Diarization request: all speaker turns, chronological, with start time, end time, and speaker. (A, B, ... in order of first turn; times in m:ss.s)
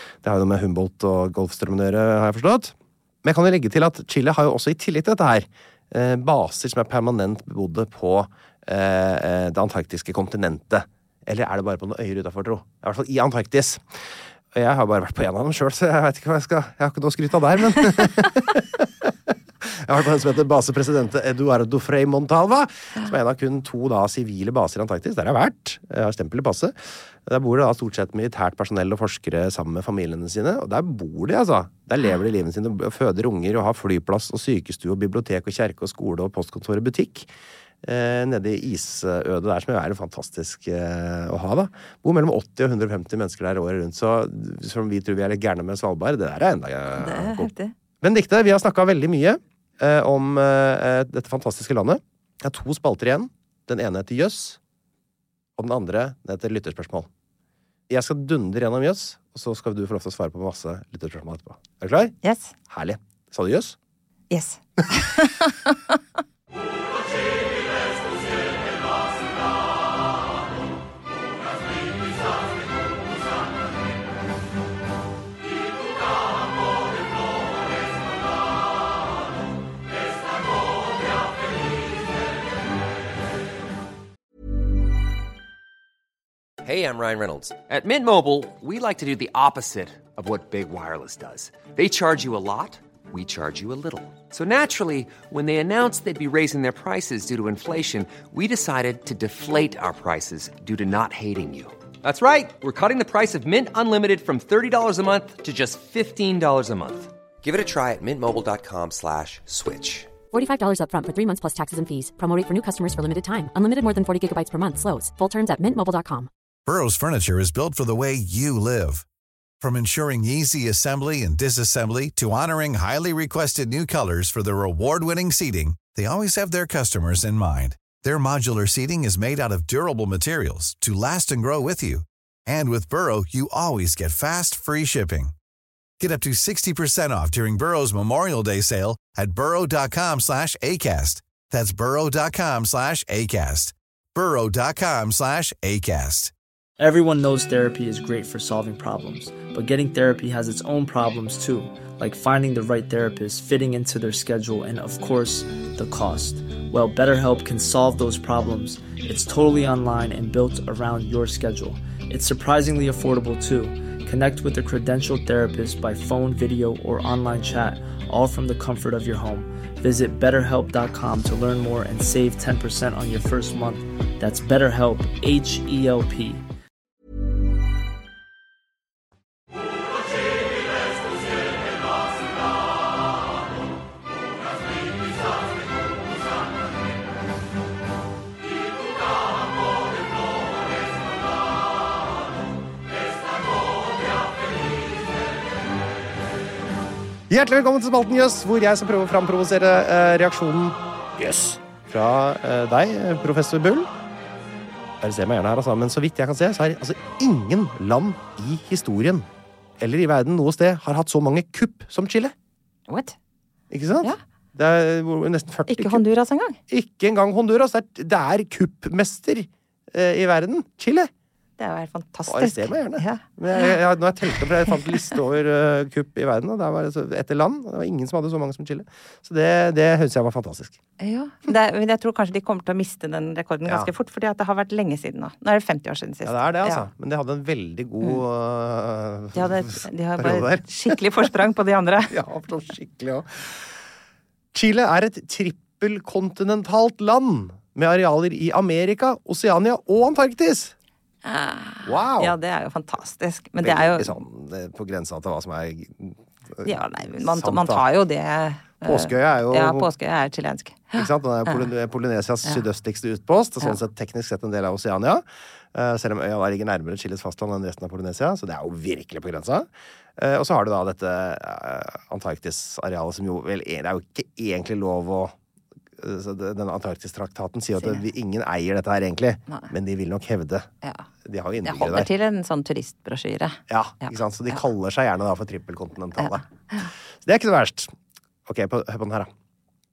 0:00.2-0:13.8 A
0:14.5-0:37.3 A
0:37.8-0:54.6 A
0:47.0-0:47.7 B
0:55.6-0:57.1 A
0:57.9-1:02.2 A
1:02.2-1:02.5 B
1:02.7-1:03.8 A
1:04.3-1:05.9 B
1:26.6-1:50.1 C
1:50.3-1:56.3 D
1:56.7-1:59.0 E
1:59.6-2:15.3 E
2:16.0-2:26.3 E
2:26.8-2:56.4 F
3:17.3-3:23.9 A
3:25.0-3:29.3 A
3:29.8-3:32.3 A
3:32.9-3:33.2 B
3:33.7-3:36.0 A
3:35.7-3:36.6 B
3:36.7-3:41.1 A
3:41.6-3:43.7 B
3:42.3-3:50.8 A
3:51.0-3:56.9 B
3:56.2-4:01.3 A
3:59.3-4:02.1 B
4:02.1-4:03.7 A
4:04.5-4:10.7 A
4:11.2-4:14.2 B
4:11.8-4:12.4 A
4:13.6-4:17.8 A
4:16.6-4:21.7 B
4:18.8-4:19.9 A
4:21.0-4:35.3 A
4:36.0-4:40.7 A
4:37.8-4:38.0 B
4:41.2-4:42.1 A
4:41.6-4:44.6 B
4:43.7-4:46.4 A
4:46.2-4:46.9 B
4:47.2-4:47.9 A
4:48.5-4:49.3 A